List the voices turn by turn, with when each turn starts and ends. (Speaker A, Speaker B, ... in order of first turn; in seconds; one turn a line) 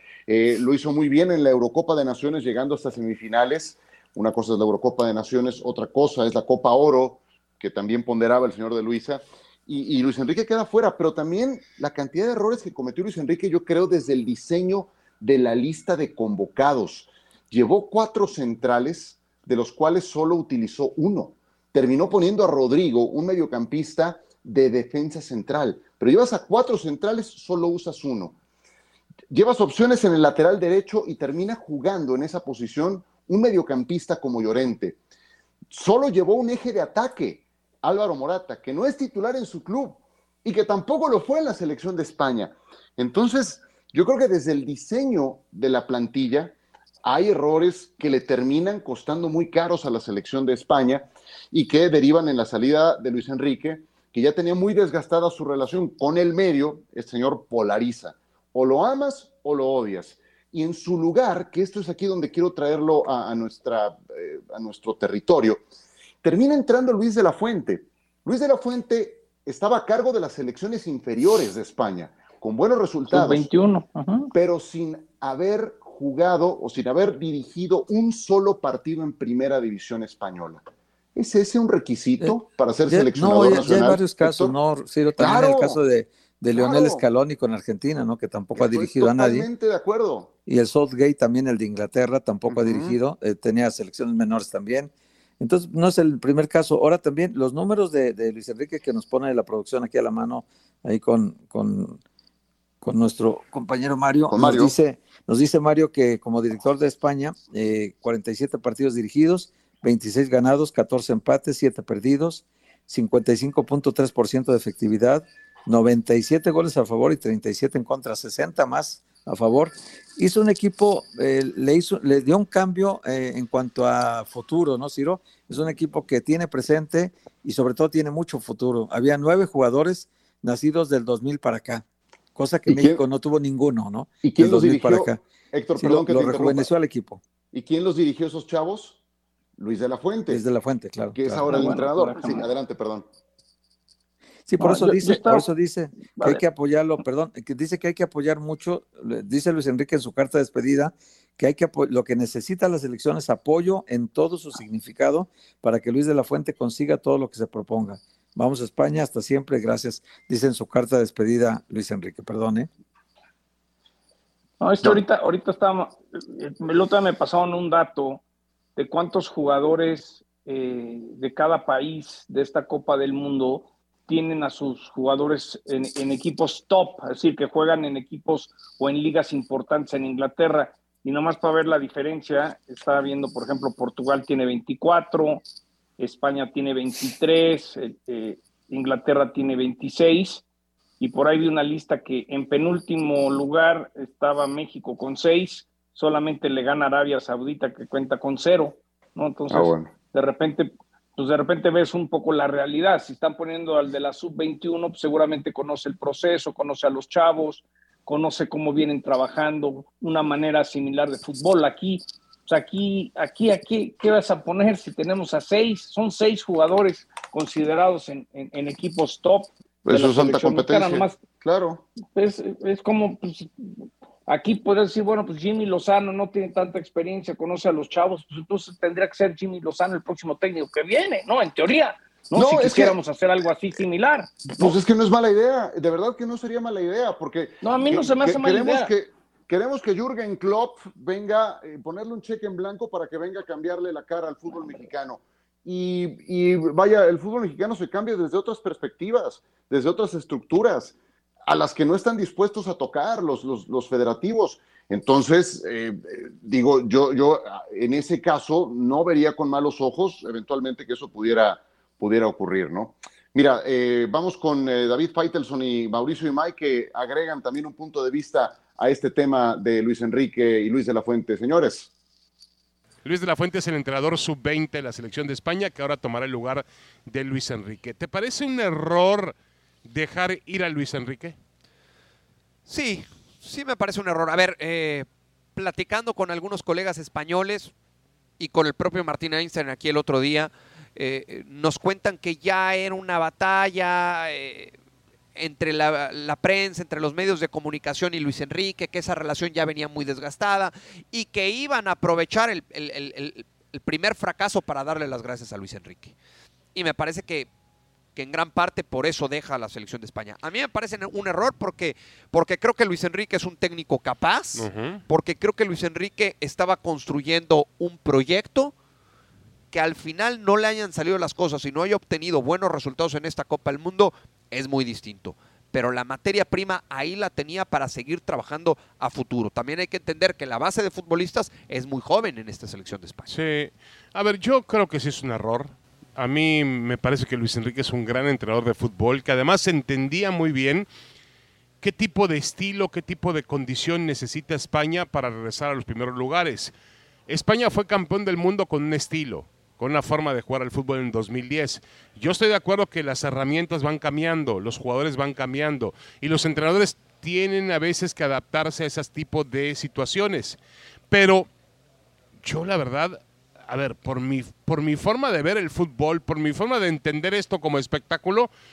Speaker A: 0.3-28.4
Speaker A: 29.3-35.0
Speaker A: 35.7-65.6
Speaker A: 66.2-73.5
Speaker B: 73.1-74.3
Speaker A: 74.3-80.6
Speaker A: 81.2-84.5
Speaker C: 82.2-89.5
Speaker A: 85.2-85.8
Speaker A: 86.5-87.0
Speaker A: 88.6-90.3
Speaker C: 90.5-102.0
Speaker A: 92.5-93.0
Speaker C: 102.8-135.2
Speaker A: 104.3-104.7
Speaker A: 132.7-133.0
Speaker A: 134.2-136.7
Speaker C: 135.8-137.2
Speaker A: 137.5-139.0
Speaker A: 139.6-140.4
Speaker C: 140.3-141.7
Speaker A: 141.2-143.1
Speaker B: 141.5-142.5
Speaker C: 144.5-162.7
Speaker B: 144.6-145.5
Speaker B: 146.2-146.4
Speaker B: 164.6-168.2
Speaker B: 168.8-185.4
Speaker B: 186.0-190.4
Speaker B: 191.0-221.2
Speaker A: 199.5-199.9
Speaker A: 219.9-221.8
Speaker B: 222.0-223.8
Speaker B: 224.3-234.8
Speaker A: 232.3-233.0
Speaker A: 234.5-251.0
Speaker B: 237.6-238.9
Speaker A: 251.5-271.9
Speaker D: 273.1-281.4
Speaker E: 282.7-287.7
Speaker E: 288.4-294.8
Speaker E: 295.4-306.2
Speaker E: 306.8-307.5
Speaker E: 308.1-318.7
Speaker D: 314.5-315.0
Speaker E: 319.7-333.3
Speaker D: 333.3-340.9
Speaker D: 341.8-346.7
Speaker D: 347.3-361.5
Speaker D: 362.4-368.5